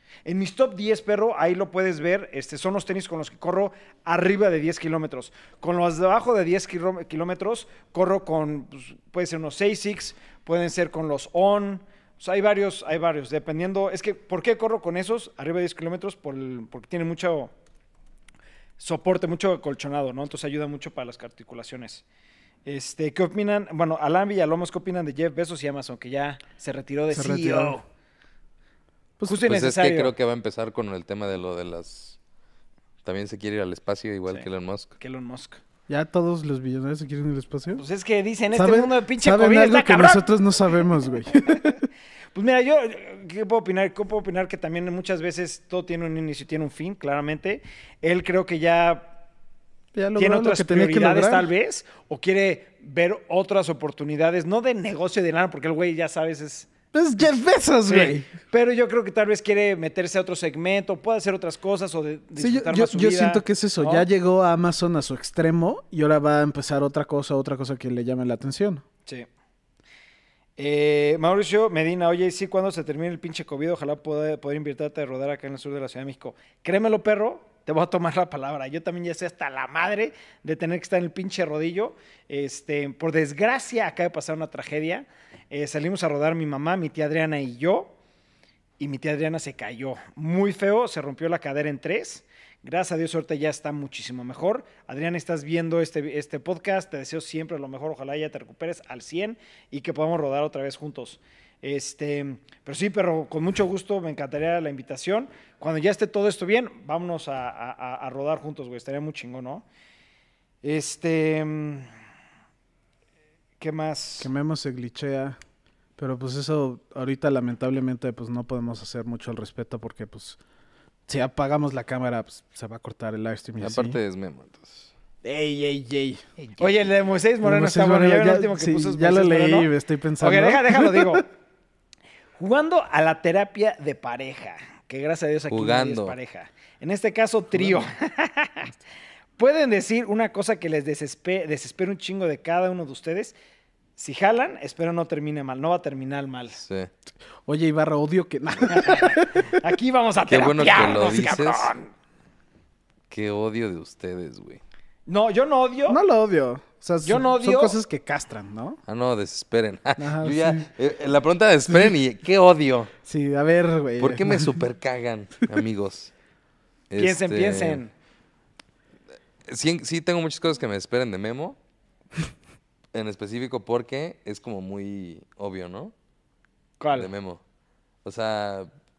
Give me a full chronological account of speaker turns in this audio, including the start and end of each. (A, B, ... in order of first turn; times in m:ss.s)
0:00.2-0:17.5 A
0:18.8-0:22.0 A
0:22.6-0:27.8 A
0:27.1-0:27.8 B
0:29.2-0:30.1 A
0:29.4-0:32.2 C
0:33.0-0:34.9 C
0:35.0-0:35.6 A
0:35.9-0:37.8 B
0:37.7-0:40.2 A
0:38.5-0:41.8 B
0:42.3-0:49.1 A
0:49.9-0:51.5 B
0:50.2-0:56.7 A
0:56.9-0:58.3 B
0:57.8-1:04.1 A
1:02.4-1:08.8 B
1:10.6-1:27.9 A
1:28.8-1:49.6 A
1:50.6-1:51.9 A
1:53.6-1:54.3 A
1:54.2-1:55.4 B
1:56.0-2:00.4 B
2:01.1-2:04.0 B
2:03.6-2:04.9 C
2:05.2-2:06.2 B
2:06.4-2:11.3 A
2:07.4-2:11.2 B
2:12.4-2:18.7 A
2:15.5-2:16.2 C
2:19.4-2:23.3 A
2:24.0-2:26.6 A
2:26.6-2:26.9 C
2:27.4-2:29.6 B
2:28.6-2:31.9 A
2:30.3-2:31.7 C
2:33.1-2:34.6 C
2:35.1-2:36.0 A
2:35.9-2:38.8 B
2:37.0-2:37.8 A
2:38.9-2:42.9 C
2:40.0-2:40.7 B
2:43.0-2:44.6 B
2:44.0-2:46.1 C
2:46.9-2:47.8 C
2:47.0-2:47.9 A
2:49.5-2:51.6 C
2:52.9-2:55.9 C
2:56.8-2:57.1 A
2:56.9-2:57.4 C
2:58.0-2:58.7 C